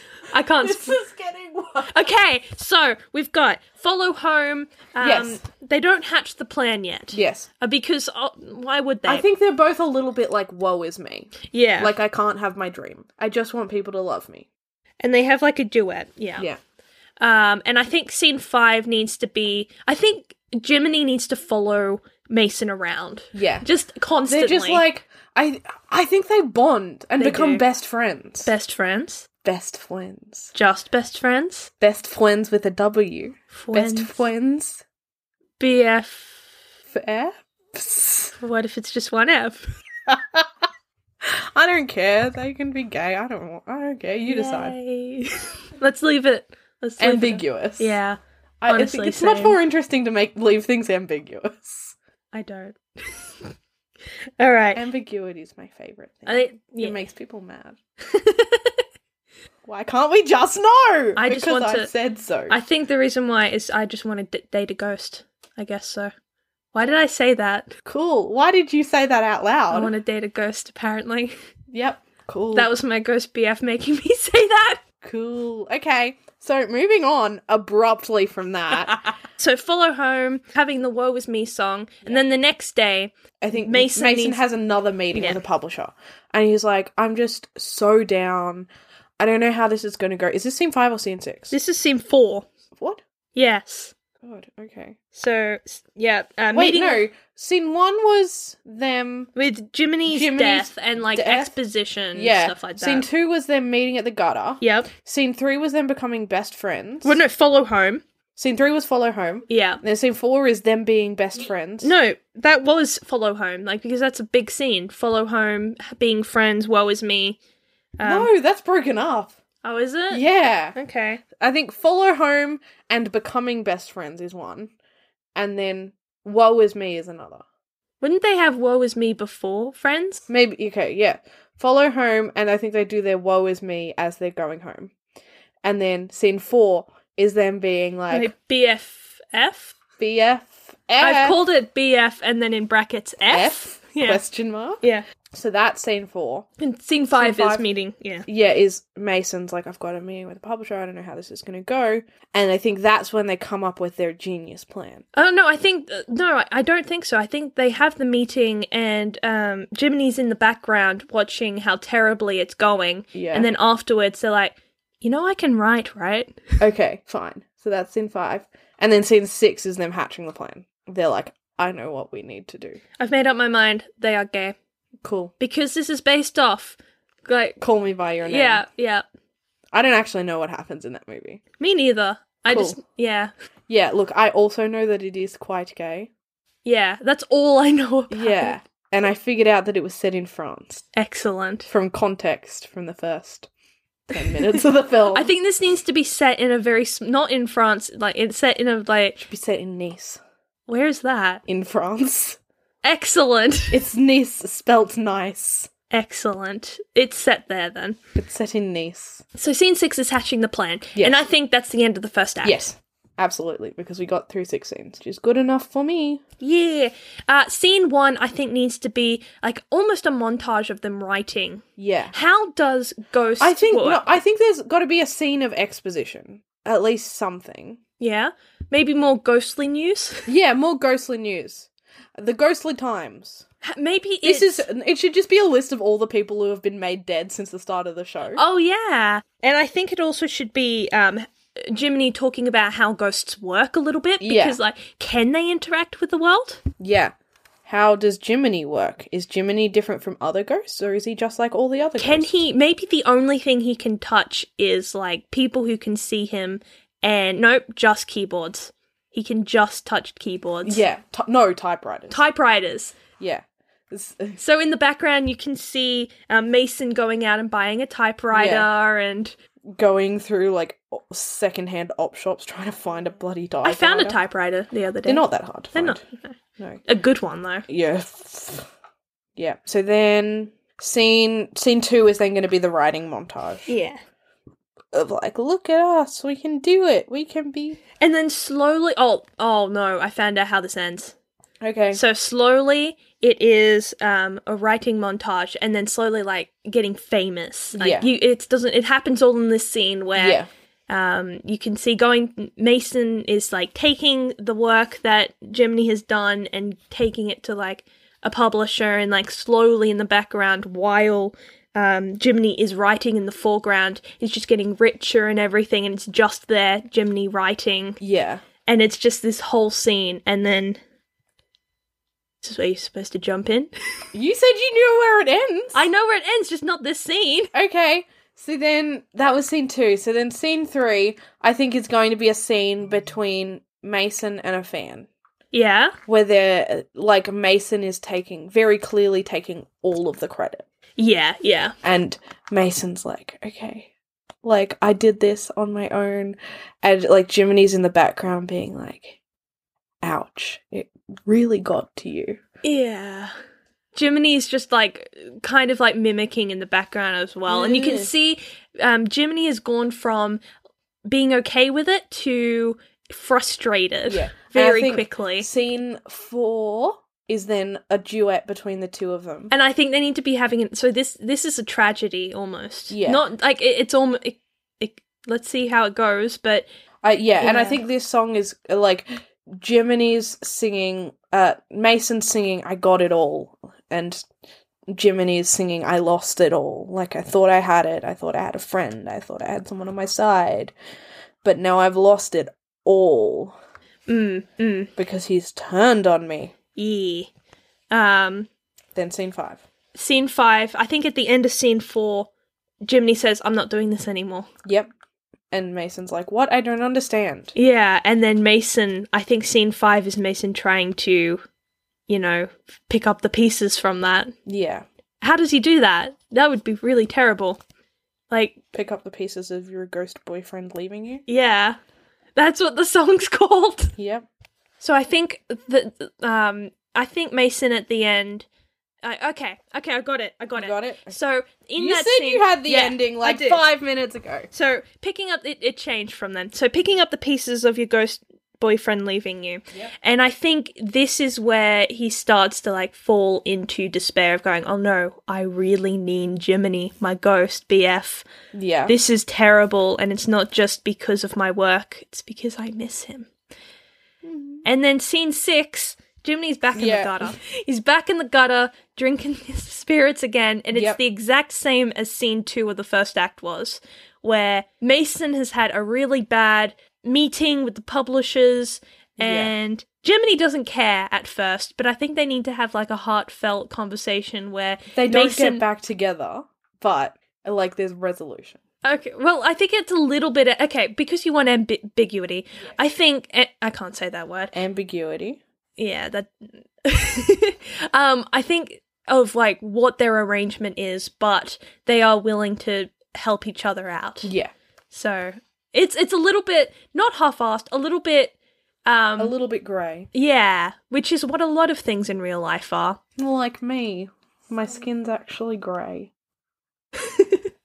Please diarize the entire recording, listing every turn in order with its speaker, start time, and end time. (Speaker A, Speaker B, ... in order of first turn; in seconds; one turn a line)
Speaker A: 0.3-1.0
Speaker B: 0.6-1.9
Speaker A: 1.9-9.3
Speaker B: 5.0-5.4
Speaker B: 7.1-7.5
Speaker B: 9.1-14.5
Speaker A: 11.5-11.9
Speaker A: 15.0-16.5
Speaker A: 17.2-24.9
Speaker B: 23.3-23.7
Speaker B: 24.3-28.5
Speaker A: 27.2-27.6
Speaker A: 28.4-29.2
Speaker B: 29.4-30.5
Speaker A: 30.6-31.7
Speaker B: 31.8-34.8
Speaker A: 33.5-34.2
Speaker A: 35.6-36.4
Speaker B: 36.9-38.3
Speaker A: 38.4-39.7
Speaker B: 40.1-40.5
Speaker B: 41.2-44.8
Speaker A: 44.3-49.6
Speaker B: 47.0-48.0
Speaker B: 48.6-52.0
Speaker A: 52.3-53.3
Speaker A: 54.4-54.8
Speaker B: 54.8-57.8
Speaker A: 56.3-57.0
Speaker A: 58.1-58.8
Speaker B: 59.6-62.6
Speaker A: 61.2-61.9
Speaker A: 62.5-66.1
Speaker A: 66.7-67.7
Speaker B: 67.8-69.9
Speaker A: 69.7-71.4
Speaker B: 71.7-72.7
Speaker A: 72.5-74.8
Speaker B: 75.0-79.0
Speaker A: 79.4-84.4
Speaker B: 83.4-91.5
Speaker A: 85.1-85.4
Speaker A: 91.5-92.5
Speaker B: 92.8-93.0
Speaker A: 93.3-93.9
Speaker B: 94.2-95.0
Speaker A: 95.1-97.0
Speaker B: 96.5-99.3
Speaker A: 99.4-103.1
Speaker B: 100.1-101.5
Speaker B: 102.1-107.2
Speaker A: 104.6-104.9
Speaker A: 107.0-108.0
Speaker B: 108.4-111.9
Speaker A: 109.5-109.8
Speaker A: 111.8-117.4
Speaker A: 118.0-118.3
Speaker B: 118.0-119.4
Speaker A: 119.6-121.2
Speaker B: 120.1-120.8
Speaker B: 121.3-124.7
Speaker B: 125.3-127.4
Speaker A: 128.0-130.2
Speaker B: 130.3-134.9
Speaker B: 135.6-138.3
Speaker A: 138.1-139.8
Speaker B: 140.0-141.4
Speaker A: 141.0-144.2
Speaker B: 143.3-144.8
Speaker B: 145.3-146.5
Speaker A: 146.6-148.3
Speaker B: 147.1-147.7
Speaker B: 148.3-155.1
Speaker A: 155.1-166.6
Speaker B: 163.1-163.5
Speaker B: 166.6-172.8
Speaker A: 173.0-174.6
Speaker B: 175.0-175.3
Speaker A: 175.4-177.6
Speaker B: 177.6-178.6
Speaker A: 178.2-179.0
Speaker B: 179.7-181.4
Speaker A: 181.6-183.3
Speaker B: 182.5-182.8
Speaker B: 183.7-186.1
Speaker A: 186.7-188.6
Speaker B: 188.1-190.9
Speaker A: 190.9-191.7
Speaker B: 191.7-193.5
Speaker B: 194.1-195.3
Speaker A: 195.1-199.2
Speaker B: 199.2-200.2
Speaker A: 200.7-201.4
Speaker B: 201.5-202.4
Speaker A: 202.8-203.8
Speaker B: 203.7-205.7
Speaker A: 205.9-208.0
Speaker B: 208.2-209.2
Speaker A: 209.4-212.7
Speaker B: 210.9-211.3
Speaker B: 212.4-216.2
Speaker A: 216.4-224.1
Speaker B: 221.8-222.1
Speaker B: 223.4-227.8
Speaker A: 228.0-230.3
Speaker B: 230.3-233.4
Speaker A: 233.6-234.7
Speaker B: 234.2-238.4
Speaker A: 238.4-246.6
Speaker B: 244.2-244.6
Speaker B: 246.8-247.1
Speaker B: 247.7-252.4
Speaker A: 252.0-260.8
Speaker B: 260.6-262.2
Speaker A: 262.1-263.0
Speaker B: 263.2-264.4
Speaker A: 264.4-269.4
Speaker B: 268.3-268.7
Speaker B: 269.6-274.2
Speaker A: 273.6-276.4
Speaker B: 275.1-276.0
Speaker A: 276.9-277.7
Speaker B: 277.7-278.7
Speaker B: 279.4-283.7
Speaker A: 283.7-284.0
Speaker B: 284.9-287.8
Speaker A: 288.0-291.1
Speaker B: 291.6-292.0
Speaker A: 291.9-318.0
Speaker B: 297.8-298.1
Speaker B: 300.1-300.5
Speaker B: 318.0-318.4
Speaker A: 318.6-320.8
Speaker A: 322.4-323.7
Speaker B: 324.1-325.8
Speaker A: 325.7-327.5
Speaker B: 327.5-335.1
Speaker A: 335.5-336.0
Speaker B: 336.1-340.6
Speaker A: 341.0-341.8
Speaker B: 341.8-343.9
Speaker B: 344.4-349.2
Speaker B: 350.0-352.4
Speaker A: 352.6-353.3
Speaker A: 353.9-360.4
Speaker B: 357.5-358.1
Speaker A: 361.1-365.5
Speaker B: 364.1-369.5
Speaker A: 369.5-376.7
Speaker B: 372.9-373.2
Speaker B: 377.0-384.3
Speaker A: 377.4-377.8
Speaker B: 384.9-390.7
Speaker B: 391.4-393.6
Speaker A: 394.1-394.9
Speaker B: 395.0-396.5
Speaker A: 396.8-397.3
Speaker A: 397.9-398.5
Speaker B: 398.9-399.6
Speaker A: 399.9-402.3
Speaker A: 402.8-404.5
Speaker B: 404.6-404.9
Speaker B: 405.5-407.5
Speaker A: 407.6-411.4
Speaker A: 412.1-414.4
Speaker B: 414.5-414.9
Speaker A: 415.2-417.6
Speaker A: 418.3-418.6
Speaker B: 418.7-421.2
Speaker A: 421.3-421.8
Speaker A: 422.4-423.9
Speaker B: 424.0-424.3
Speaker A: 424.8-428.5
Speaker A: 429.0-433.6
Speaker B: 430.6-431.2
Speaker B: 431.8-434.5
Speaker A: 434.5-448.3
Speaker B: 448.5-448.9
Speaker A: 448.9-453.3
Speaker B: 454.2-454.6
Speaker A: 454.6-475.6
Speaker B: 456.8-457.4
Speaker B: 460.7-461.0
Speaker B: 469.2-469.5
Speaker B: 474.9-478.6
Speaker A: 478.8-484.5
Speaker B: 484.5-485.4
Speaker A: 485.8-494.3
Speaker B: 494.2-494.5
Speaker A: 494.9-498.3
Speaker A: 498.9-499.4
Speaker B: 499.2-500.1
Speaker A: 500.1-503.0
Speaker B: 503.2-506.1
Speaker A: 507.0-507.5